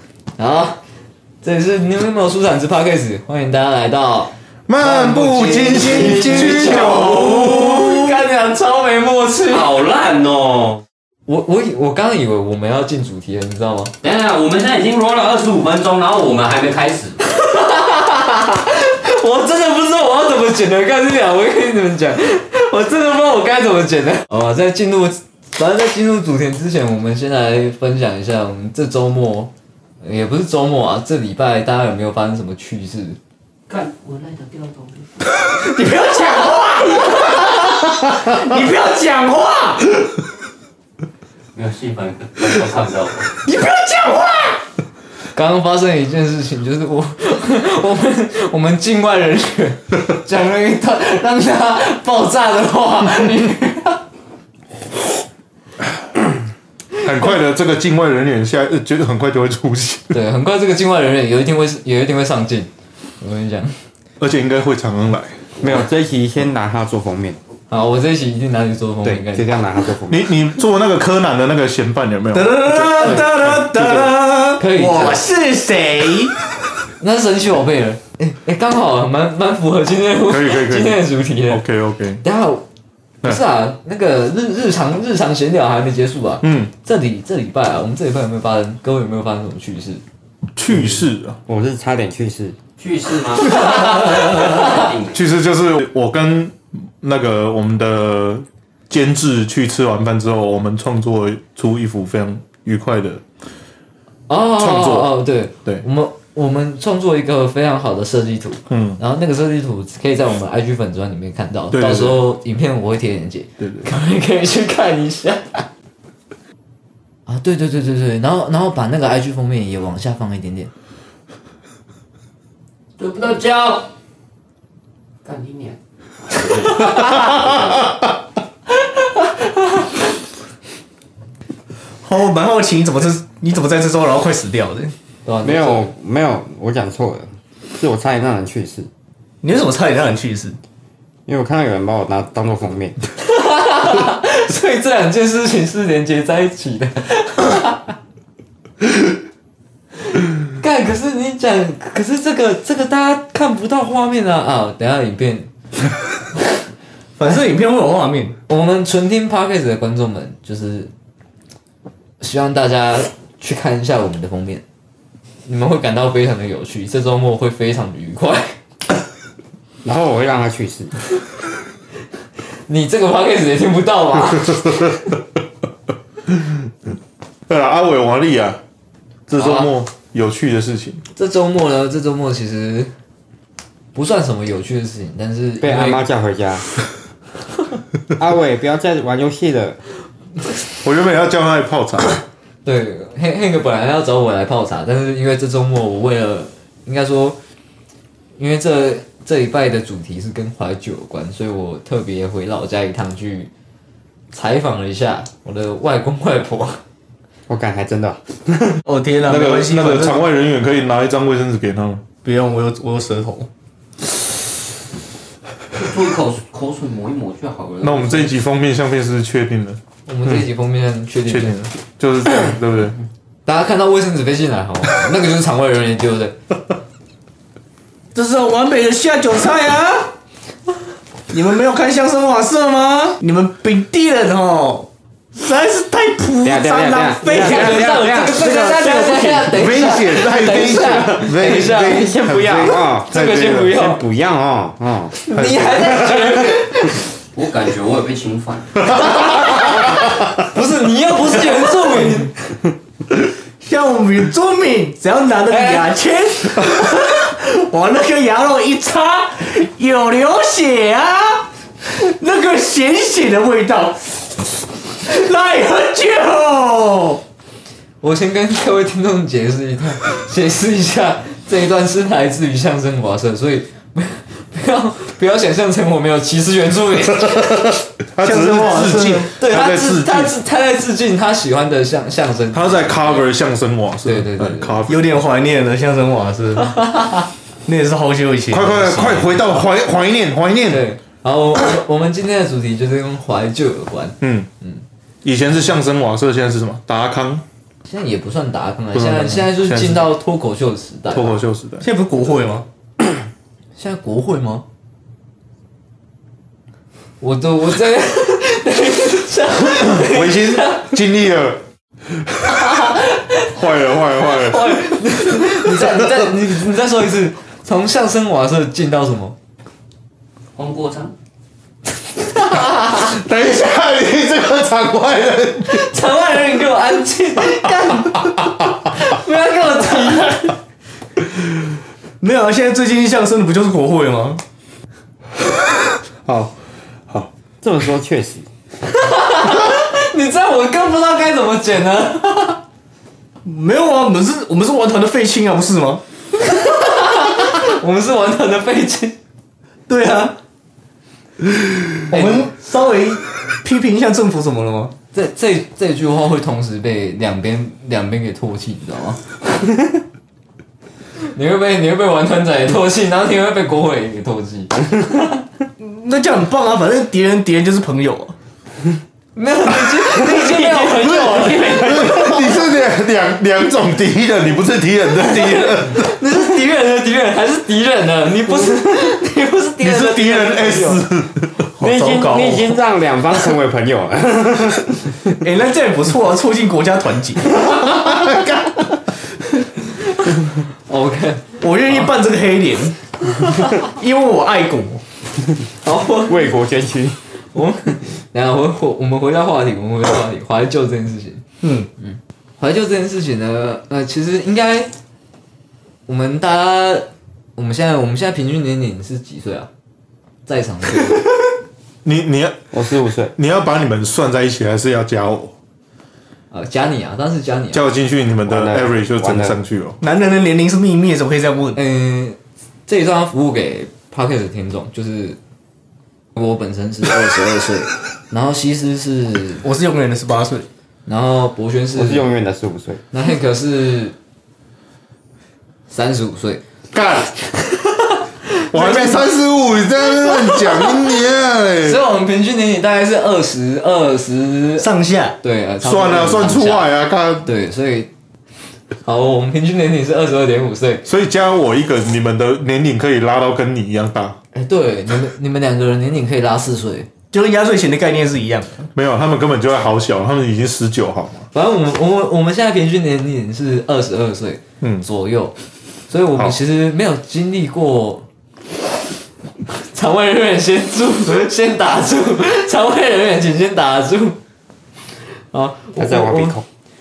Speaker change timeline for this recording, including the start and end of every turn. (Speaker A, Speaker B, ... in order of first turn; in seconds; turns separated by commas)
Speaker A: 0.4-0.8, Speaker A: 1.4-9.8, Speaker B: 4.7-8.1, Speaker C: 5.7-7.4, Speaker C: 9.5-10.8, Speaker A: 11.3-13.9, Speaker C: 14.0-17.2, Speaker A: 17.4-33.2, Speaker C: 33.7-35.5, Speaker D: 35.5-39.8, Speaker C: 41.5-43.4, Speaker D: 43.5-44.6, Speaker A: 45.4-54.0, Speaker B: 57.0-60.2, Speaker A: 60.1-62.7, Speaker A: 63.2-63.8, Speaker B: 64.2-65.4, Speaker E: 65.6-67.4, Speaker A: 67.7-69.6, Speaker E: 69.1-70.3, Speaker B: 70.1-74.1, Speaker D: 72.3-76.3, Speaker A: 74.6-75.2, Speaker A: 77.0-81.7, Speaker B: 80.3-82.2, Speaker A: 82.2-82.6, Speaker A: 83.2-90.0, Speaker B: 86.4-86.7, Speaker B: 90.6-91.4, Speaker E: 90.7-92.6, Speaker C: 92.8-95.2, Speaker A: 93.5-94.8, Speaker B: 95.1-103.2, Speaker A: 104.3-115.7, Speaker B: 104.6-105.8, Speaker B: 108.7-109.0, Speaker B: 111.7-112.2, Speaker B: 113.6-113.8, Speaker A: 117.3-120.7, Speaker C: 123.0-123.9, Speaker C: 125.2-127.9, Speaker A: 126.8-127.1, Speaker D: 132.0-134.9, Speaker A: 135.3-135.9, Speaker E: 135.4-138.9, Speaker D: 139.4-140.6, Speaker E: 141.3-143.0, Speaker A: 143.2-147.9, Speaker A: 150.5-155.5, Speaker D: 157.2-158.4, Speaker A: 158.5-160.9, Speaker A: 162.2-164.6, Speaker A: 165.5-168.6, Speaker E: 169.8-170.9, Speaker A: 172.7-175.1, Speaker B: 174.6-175.0, Speaker B: 176.3-176.7, Speaker B: 177.5-178.6, Speaker B: 179.3-181.0, Speaker A: 179.4-179.7, Speaker A: 181.2-182.9, Speaker A: 183.9-186.1, Speaker E: 185.6-186.7, Speaker E: 188.2-189.8, Speaker B: 190.8-192.2, Speaker A: 192.7-197.4, Speaker A: 198.4-203.5, Speaker A: 204.3-206.8, Speaker E: 207.5-208.8, Speaker D: 208.9-210.2, Speaker B: 209.3-212.0, Speaker D: 212.2-213.5, Speaker C: 215.7-218.3, Speaker B: 217.8-220.4, Speaker A: 220.1-221.6, Speaker B: 221.3-223.0, Speaker A: 223.5-226.4, Speaker D: 228.2-230.1, Speaker D: 231.3-239.8, Speaker E: 236.4-238.6, Speaker A: 237.3-242.1, Speaker B: 239.5-242.9, Speaker E: 241.7-245.6, Speaker A: 243.0-244.0, Speaker A: 245.2-247.1, Speaker B: 245.3-246.3, Speaker C: 247.3-249.7, Speaker A: 248.9-249.9, Speaker A: 250.4-252.3, Speaker D: 253.6-264.4, Speaker A: 255.5-255.9, Speaker D: 265.0-267.2, Speaker A: 268.0-277.7, Speaker B: 277.1-280.4, Speaker D: 278.2-279.3, Speaker A: 279.4-283.3, Speaker B: 282.5-285.2, Speaker A: 284.1-284.8, Speaker D: 284.9-286.8, Speaker D: 287.7-289.4, Speaker B: 288.5-290.8, Speaker A: 290.7-294.8, Speaker B: 294.2-294.5, Speaker B: 295.2-297.4, Speaker A: 297.9-301.4, Speaker B: 298.9-300.1, Speaker B: 301.1-301.9, Speaker D: 301.8-302.7, Speaker A: 303.8-304.6, Speaker A: 307.2-310.9, Speaker B: 309.8-312.9, Speaker A: 312.6-313.5, Speaker B: 313.5-316.1, Speaker A: 314.1-319.4, Speaker C: 320.6-321.1, Speaker A: 322.2-323.1, Speaker B: 323.0-325.9, Speaker A: 325.6-330.6, Speaker D: 332.2-334.4, Speaker B: 336.2-336.6, Speaker E: 337.6-338.5, Speaker A: 338.9-342.6, Speaker D: 343.4-346.0, Speaker A: 346.4-349.2, Speaker D: 349.9-350.4, Speaker D: 351.9-354.9, Speaker A: 352.1-352.5, Speaker A: 355.1-359.4, Speaker A: 361.3-364.8, Speaker D: 365.8-368.4, Speaker A: 369.4-372.4, Speaker D: 370.2-372.1, Speaker B: 371.5-376.1, Speaker A: 375.3-381.0, Speaker B: 379.8-381.7, Speaker D: 381.8-382.7, Speaker E: 381.8-385.1, Speaker D: 385.4-387.7, Speaker B: 388.1-388.5, Speaker A: 390.9-391.6, Speaker D: 391.6-393.0, Speaker A: 393.3-393.8, Speaker D: 393.8-395.0, Speaker A: 395.8-396.5, Speaker E: 396.3-397.2, Speaker A: 397.5-401.4, Speaker D: 401.6-401.9, Speaker A: 402.0-404.9, Speaker A: 406.1-409.7, Speaker A: 410.5-411.2, Speaker B: 412.1-412.6, Speaker E: 412.7-413.3, Speaker B: 413.4-415.5, Speaker A: 416.5-417.8, Speaker B: 417.7-420.0, Speaker E: 418.5-419.6, Speaker D: 420.0-421.8, Speaker A: 421.8-425.4, Speaker A: 426.4-429.6, Speaker D: 429.6-430.7, Speaker A: 431.1-432.3, Speaker E: 431.9-433.0, Speaker A: 433.1-434.1, Speaker A: 435.9-436.6, Speaker B: 436.9-437.3, Speaker A: 437.5-439.2, Speaker B: 438.7-442.0, Speaker A: 440.3-440.9, Speaker A: 441.8-446.9, Speaker D: 444.8-445.4, Speaker B: 445.8-447.5, Speaker A: 447.4-448.1, Speaker A: 449.0-451.1, Speaker B: 451.1-454.4, Speaker A: 454.5-457.1, Speaker D: 457.3-458.9, Speaker B: 458.9-461.5, Speaker A: 461.5-465.6, Speaker A: 466.1-468.3, Speaker A: 469.7-474.4, Speaker A: 475.3-476.6, Speaker E: 476.0-476.6